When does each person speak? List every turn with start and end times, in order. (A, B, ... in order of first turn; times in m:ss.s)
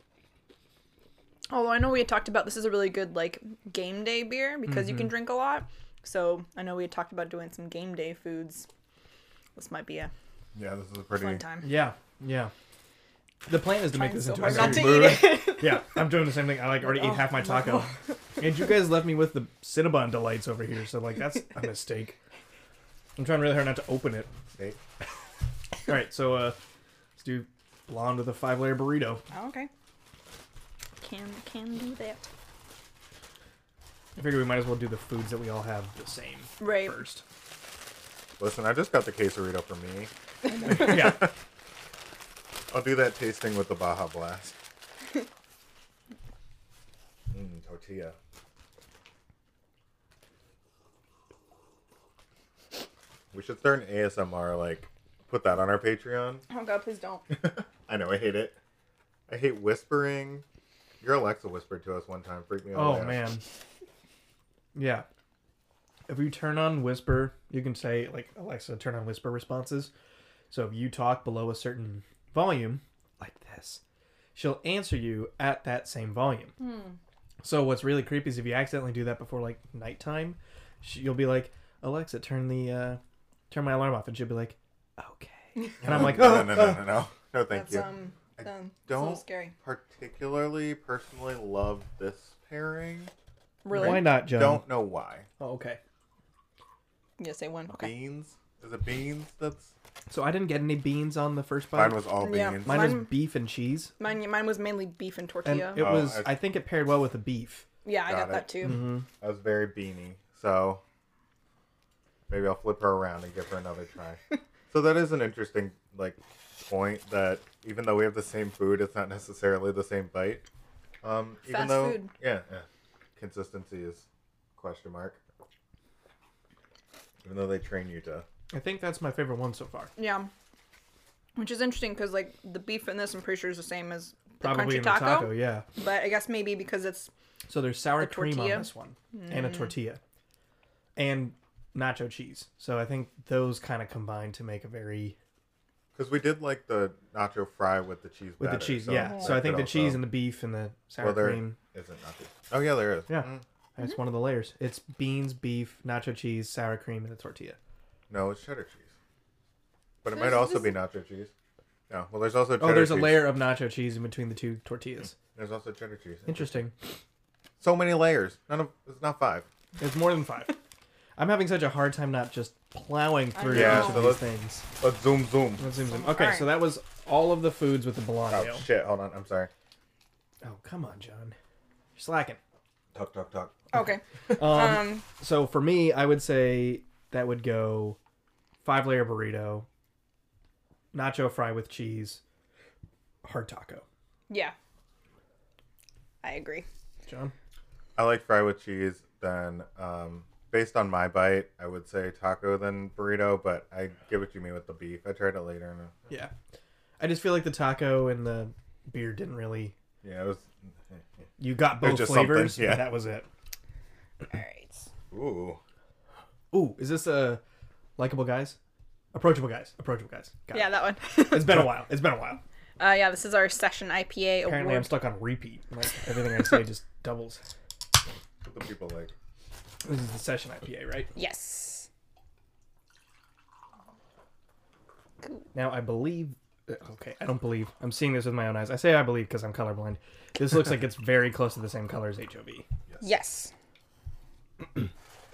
0:01.5-0:08.7 A
0:04.6-0:05.1 B
0:09.5-0:10.1 A
0:10.5-0:11.4 C
0:11.2-0:11.7 A
0:11.6-0:12.5 B
0:13.5-0:22.2 B
0:13.9-0:16.0 A
0:14.4-0:15.4 C
0:16.8-0:18.4 A
0:23.2-0:24.3 B
0:24.5-0:24.8 C
0:25.8-0:26.6 B
0:27.2-0:29.2 B
0:29.3-0:29.7 A
0:31.0-0:32.2 A
0:34.2-0:37.2 B
0:36.6-0:37.0 A
0:38.4-0:40.1 C
0:40.5-0:41.1 A
0:40.6-0:41.3 B
0:40.8-0:41.2 C
0:42.7-0:44.6 C
0:47.3-0:48.1 C
0:53.3-0:56.4 C
0:56.5-0:57.2 A
0:57.3-0:58.6 C
0:59.3-1:00.4 C
1:01.0-1:03.2 C
1:02.7-1:03.4 B
1:04.7-1:05.0 B
1:06.1-1:09.9 B
1:10.5-1:13.8 B
1:14.3-1:16.6 B
1:16.6-1:17.0 A
1:17.4-1:27.0 B
1:25.8-1:33.1 C
1:27.5-1:29.5 A
1:33.6-1:34.2 A
1:33.7-1:34.7 B
1:33.7-1:35.2 C
1:35.4-1:35.8 B
1:37.2-1:37.9 A
1:37.7-1:39.7 C
1:40.1-1:42.0 B
1:41.7-1:43.0 C
1:42.2-1:43.1 A
1:42.6-1:43.9 B
1:44.0-1:45.9 A
1:45.4-1:47.6 B
1:45.8-1:46.4 C
1:47.8-1:48.8 A
1:48.0-1:50.8 C
1:48.6-1:49.0 B
1:52.3-2:00.4 C
2:01.0-2:02.6 C
2:01.5-2:02.1 A
2:03.2-2:04.0 C
2:04.6-2:05.2 C
2:07.2-2:08.2 C
2:08.5-2:09.9 B
2:10.0-2:10.3 A
2:11.4-2:17.1 A
2:14.4-2:15.6 B
2:17.5-2:20.0 B
2:18.0-2:19.8 A
2:21.0-2:25.2 B
2:25.9-2:30.1 C
2:28.4-2:31.6 B
2:31.0-2:33.4 C
2:33.1-2:37.6 B
2:38.1-2:38.9 C
2:40.0-2:41.3 C
2:40.1-2:40.8 A
2:41.9-2:43.4 C
2:42.6-2:45.1 B
2:45.3-2:46.6 C
2:46.3-2:46.7 B
2:47.6-2:49.5 C
2:49.8-2:50.6 B
2:51.2-2:54.6 B
2:53.3-2:54.1 A
2:53.5-2:54.2 C
2:54.8-2:55.6 C
2:55.6-2:58.6 B
2:55.9-2:56.6 A
2:58.3-2:59.5 C
3:00.4-3:01.4 B
3:01.9-3:02.4 B
3:02.9-3:03.6 C
3:03.7-3:05.0 A
3:03.7-3:08.0 B
3:08.6-3:09.7 B
3:10.9-3:12.2 B
3:13.2-3:13.8 B
3:14.3-3:14.5 A
3:16.2-3:16.6 A
3:17.0-3:17.3 B
3:18.0-3:25.9 C
3:27.0-3:29.7 B
3:30.0-3:31.0 C
3:31.4-3:33.3 B
3:31.8-3:32.9 C
3:34.3-3:34.9 A
3:35.1-3:35.6 C
3:36.5-3:37.4 B
3:38.0-3:38.6 B
3:39.1-3:42.4 B
3:40.5-3:41.7 A
3:42.8-3:45.0 A
3:44.4-3:47.4 B
3:48.4-3:49.1 C
3:49.8-3:51.1 B
3:51.1-3:51.9 A
3:55.5-4:02.6 B
4:03.0-4:03.5 A